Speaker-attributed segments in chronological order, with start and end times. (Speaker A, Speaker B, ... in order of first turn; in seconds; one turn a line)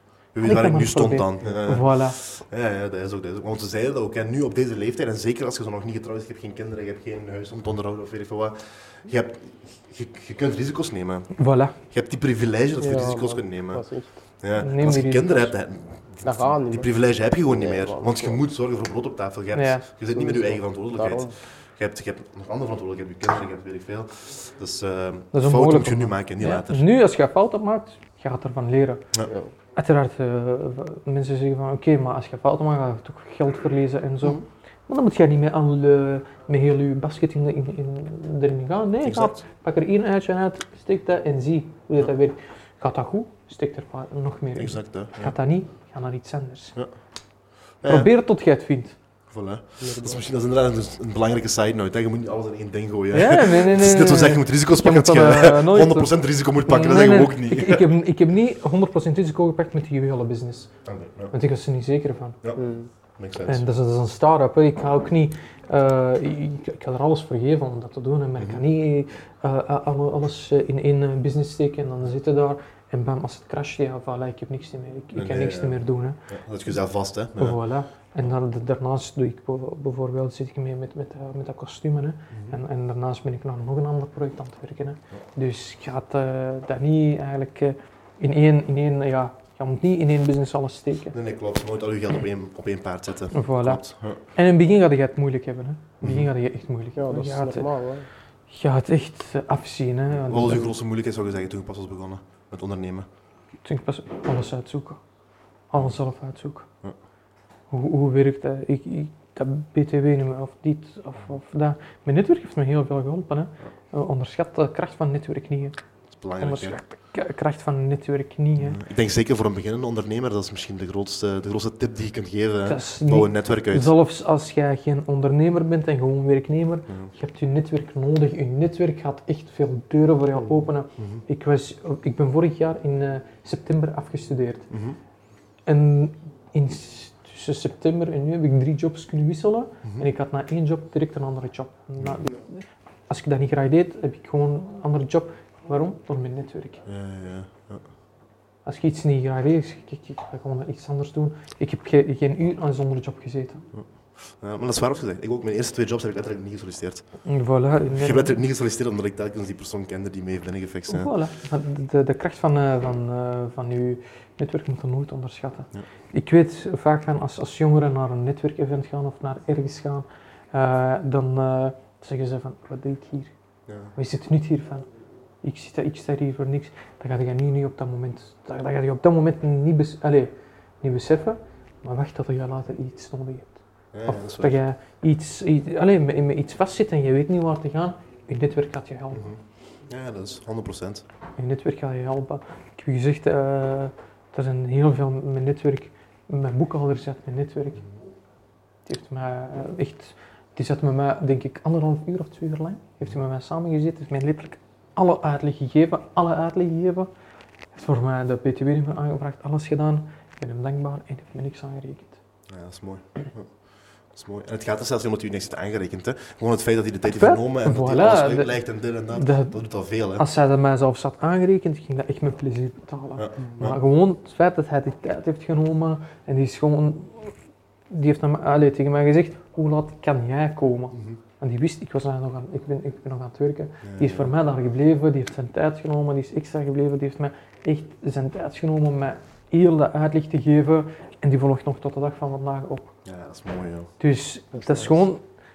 Speaker A: 0.3-11.3
Speaker B: 0.4-2.2
Speaker B: 11.4-11.8
Speaker A: 11.9-13.8
Speaker C: 12.8-14.1
Speaker A: 14.4-26.9
Speaker B: 14.6-15.5
Speaker C: 16.2-18.4
Speaker B: 19.6-19.9
Speaker C: 20.1-21.3
Speaker B: 25.3-29.0
Speaker B: 29.8-46.8
Speaker A: 39.0-39.4
Speaker A: 44.6-45.4
Speaker A: 47.8-48.1
Speaker B: 47.9-49.0
Speaker A: 49.3-57.9
Speaker C: 49.8-50.2
Speaker B: 53.1-60.7
Speaker A: 60.9-61.3
Speaker B: 61.3-62.4
Speaker C: 62.6-62.9
Speaker A: 63.2-63.6
Speaker B: 63.5-76.2
Speaker A: 68.4-68.7
Speaker A: 75.2-77.6
Speaker B: 77.4-91.1
Speaker A: 82.3-82.6
Speaker A: 91.1-94.2
Speaker B: 93.3-97.7
Speaker A: 96.0-96.3
Speaker C: 97.0-98.1
Speaker B: 98.5-100.7
Speaker A: 100.2-103.1
Speaker B: 103.6-105.0
Speaker B: 105.7-106.7
Speaker B: 107.7-115.8
Speaker A: 116.1-116.8
Speaker B: 116.4-118.8
Speaker A: 118.6-123.9
Speaker B: 122.7-134.7
Speaker A: 134.7-135.0
Speaker B: 135.7-146.8
Speaker A: 142.0-142.2
Speaker A: 146.9-147.8
Speaker B: 148.7-153.6
Speaker A: 153.7-157.0
Speaker B: 157.2-158.4
Speaker A: 157.9-161.1
Speaker B: 160.9-173.3
Speaker A: 173.7-173.9
Speaker B: 173.9-174.9
Speaker B: 175.4-189.3
Speaker A: 183.9-184.6
Speaker A: 189.1-191.1
Speaker B: 191.4-197.8
Speaker B: 198.9-207.1
Speaker B: 207.7-212.2
Speaker A: 212.5-213.5
Speaker A: 214.1-220.3
Speaker B: 217.1-218.6
Speaker B: 219.1-219.6
Speaker B: 220.2-227.3
Speaker A: 223.2-223.8
Speaker B: 227.9-242.9
Speaker A: 230.9-231.2
Speaker A: 233.8-234.3
Speaker A: 243.1-243.9
Speaker B: 244.0-245.2